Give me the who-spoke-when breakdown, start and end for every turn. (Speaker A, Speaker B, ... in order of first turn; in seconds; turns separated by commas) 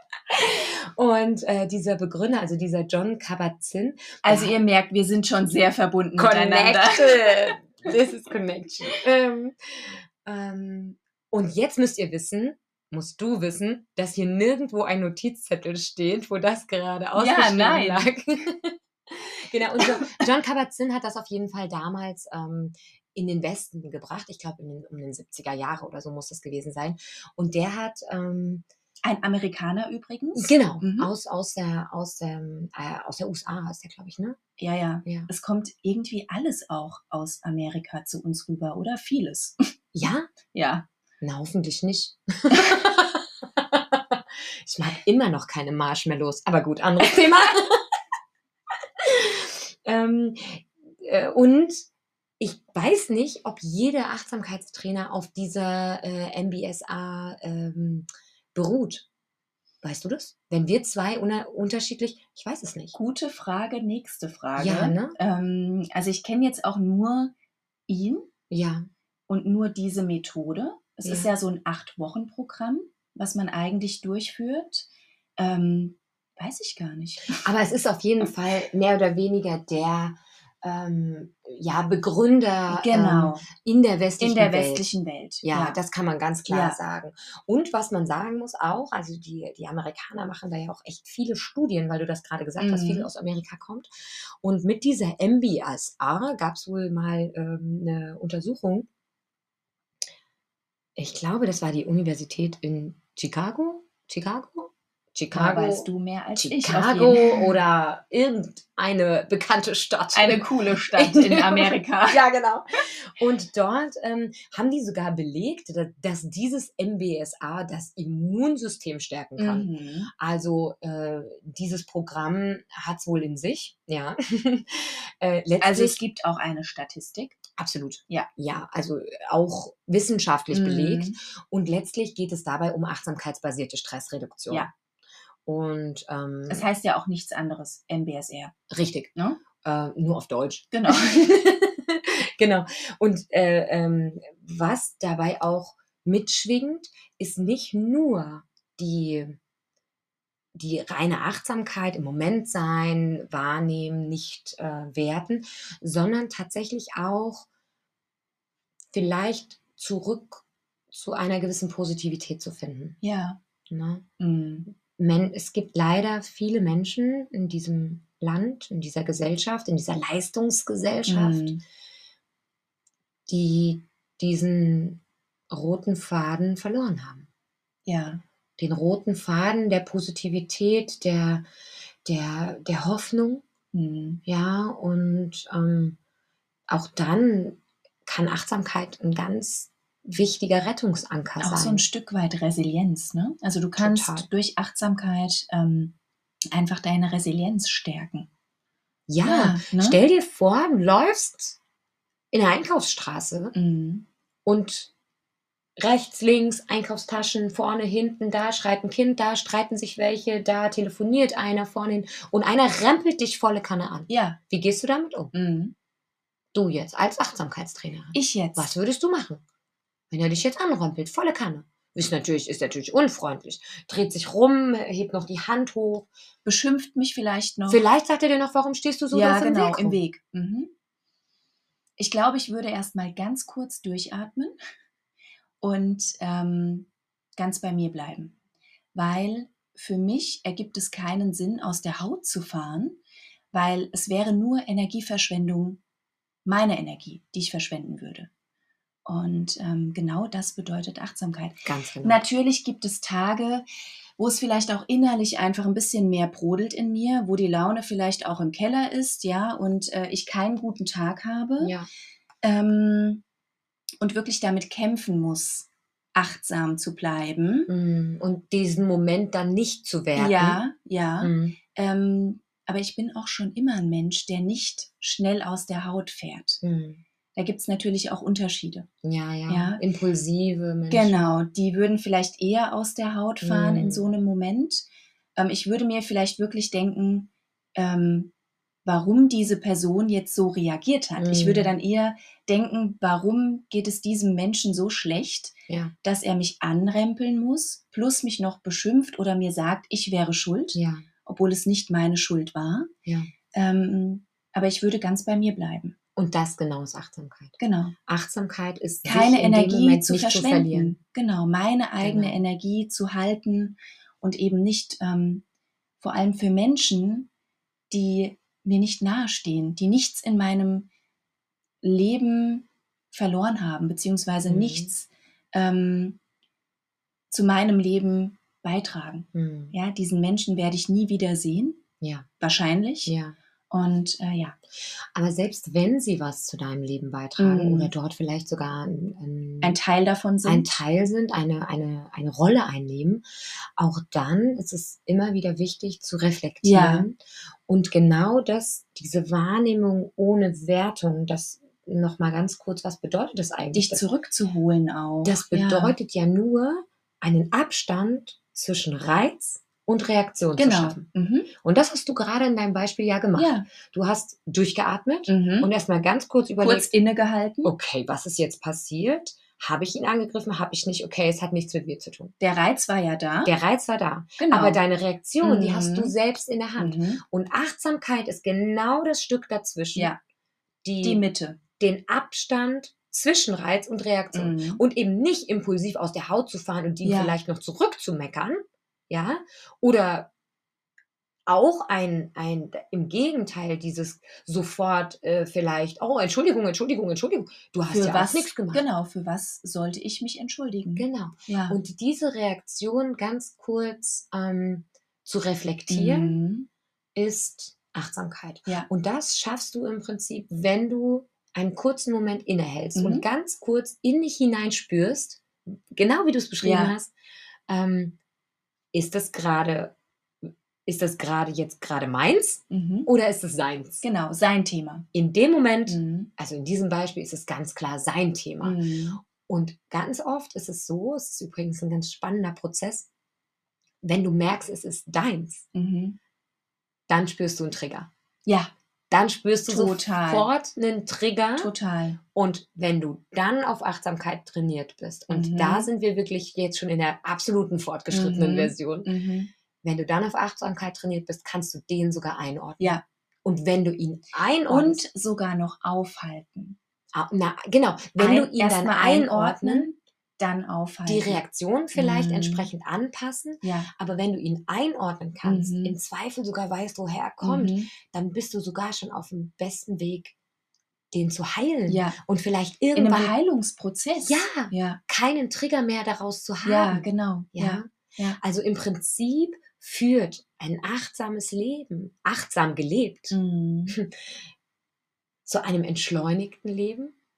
Speaker A: 0.3-4.5, Speaker B: 4.2-7.6, Speaker A: 6.2-28.6, Speaker B: 17.1-18.1, Speaker B: 19.8-20.2, Speaker B: 29.0-31.1, Speaker A: 30.4-34.4, Speaker B: 34.6-39.7, Speaker A: 39.9-40.3, Speaker B: 40.5-40.9, Speaker A: 41.2-47.8, Speaker B: 42.5-42.8, Speaker A: 49.0-51.9, Speaker A: 52.4-59.0, Speaker A: 59.8-62.9, Speaker B: 62.9-67.3, Speaker A: 64.5-65.2, Speaker B: 67.9-68.3, Speaker A: 68.5-68.9, Speaker B: 69.3-74.9, Speaker A: 71.0-71.3, Speaker B: 75.4-77.5, Speaker A: 77.4-84.9, Speaker B: 82.7-83.5, Speaker B: 84.2-85.8, Speaker A: 85.4-93.9, Speaker B: 86.5-86.8, Speaker B: 92.6-93.1, Speaker A: 94.4-98.9, Speaker A: 101.0-126.0, Speaker B: 105.3-107.5, Speaker B: 110.1-112.2, Speaker B: 119.4-120.1, Speaker B: 125.6-127.4, Speaker A: 127.5-134.7, Speaker B: 130.5-131.2, Speaker A: 135.4-136.7, Speaker B: 136.5-138.5, Speaker A: 138.7-139.1, Speaker A: 139.6-149.4, Speaker B: 140.7-141.4, Speaker A: 150.5-157.5, Speaker A: 158.9-163.0, Speaker B: 163.0-163.4, Speaker A: 163.7-164.1, Speaker B: 164.2-164.7, Speaker A: 164.7-171.5, Speaker B: 171.1-171.6, Speaker A: 173.3-177.3, Speaker B: 177.8-178.2, Speaker A: 178.6-181.5, Speaker A: 182.0-183.4, Speaker B: 183.7-184.2, Speaker A: 184.2-186.0, Speaker A: 186.7-191.8, Speaker B: 191.4-195.9, Speaker A: 193.8-194.3, Speaker B: 196.5-198.3, Speaker A: 199.1-201.6, Speaker B: 199.2-200.0, Speaker A: 202.3-203.5, Speaker B: 203.5-204.1, Speaker A: 204.4-204.9, Speaker A: 205.8-215.3, Speaker B: 214.1-214.4, Speaker B: 215.3-215.7, Speaker A: 216.5-219.4, Speaker B: 218.1-218.7, Speaker A: 220.1-226.1, Speaker B: 226.4-227.8, Speaker A: 227.7-230.0, Speaker B: 229.1-230.7, Speaker B: 232.0-234.6, Speaker B: 235.6-238.3, Speaker B: 238.9-243.0, Speaker B: 243.5-245.8, Speaker B: 246.4-248.3, Speaker B: 249.1-253.7, Speaker A: 251.6-252.2, Speaker B: 254.2-261.7, Speaker A: 261.6-261.9, Speaker B: 262.4-263.2, Speaker B: 264.0-267.7, Speaker A: 267.7-270.6, Speaker B: 270.1-276.6, Speaker A: 271.2-271.6, Speaker A: 276.6-277.0, Speaker B: 277.3-278.9, Speaker A: 279.0-281.3, Speaker B: 279.5-279.8, Speaker B: 280.9-288.3, Speaker A: 283.4-284.1, Speaker B: 288.8-302.9, Speaker A: 291.2-291.7, Speaker A: 295.7-295.9, Speaker A: 300.7-301.1, Speaker A: 303.1-303.3, Speaker B: 303.5-305.9, Speaker A: 306.1-310.9, Speaker B: 307.6-307.9, Speaker B: 309.0-315.4, Speaker A: 312.0-312.4, Speaker B: 316.0-317.3, Speaker B: 317.9-320.9, Speaker B: 321.8-326.2, Speaker A: 324.4-324.9, Speaker B: 327.3-331.8, Speaker A: 329.3-329.7, Speaker A: 332.0-332.3, Speaker B: 332.4-333.1, Speaker A: 333.1-333.4, Speaker B: 333.7-334.6, Speaker A: 334.8-339.8, Speaker B: 337.4-337.9, Speaker B: 339.6-340.8, Speaker A: 340.4-343.2, Speaker A: 343.8-354.0, Speaker B: 346.6-347.1, Speaker B: 353.7-355.9, Speaker A: 355.2-361.1, Speaker B: 360.6-361.5, Speaker A: 361.6-366.9, Speaker B: 363.3-363.7, Speaker B: 365.3-365.7, Speaker B: 366.6-367.7, Speaker A: 367.6-372.3, Speaker B: 372.4-373.5, Speaker A: 373.4-380.1, Speaker B: 374.4-374.8, Speaker B: 375.4-376.1, Speaker B: 376.8-377.2, Speaker A: 380.8-381.2, Speaker B: 381.0-381.6, Speaker A: 381.8-390.3, Speaker B: 384.3-384.8, Speaker B: 387.0-387.3, Speaker A: 391.4-398.8, Speaker B: 397.9-401.8, Speaker A: 400.9-406.4, Speaker B: 405.9-406.7, Speaker A: 407.1-417.1, Speaker B: 412.9-413.2, Speaker B: 416.6-416.9, Speaker A: 417.7-418.2, Speaker A: 418.9-419.9, Speaker A: 420.9-424.0, Speaker B: 422.7-423.1, Speaker B: 424.0-425.1, Speaker A: 425.1-433.1, Speaker B: 425.9-426.3, Speaker B: 428.6-429.2, Speaker A: 434.0-435.6, Speaker B: 435.7-436.2, Speaker A: 437.1-438.1, Speaker B: 438.4-438.7, Speaker A: 439.1-441.7, Speaker B: 439.7-440.5, Speaker B: 441.6-442.2, Speaker A: 442.3-449.1, Speaker B: 445.3-445.9, Speaker B: 448.1-449.5, Speaker A: 449.8-455.0, Speaker B: 454.7-456.8, Speaker A: 457.1-459.9, Speaker B: 458.2-461.4, Speaker A: 461.1-470.3, Speaker B: 461.9-462.7, Speaker B: 463.6-463.9, Speaker B: 465.4-465.9, Speaker B: 467.4-467.9, Speaker A: 471.1-473.3, Speaker B: 471.9-472.2, Speaker B: 472.9-475.0, Speaker A: 474.2-477.9, Speaker B: 476.6-478.4, Speaker A: 478.4-483.4, Speaker B: 483.3-484.0, Speaker A: 483.9-484.4, Speaker A: 485.4-487.1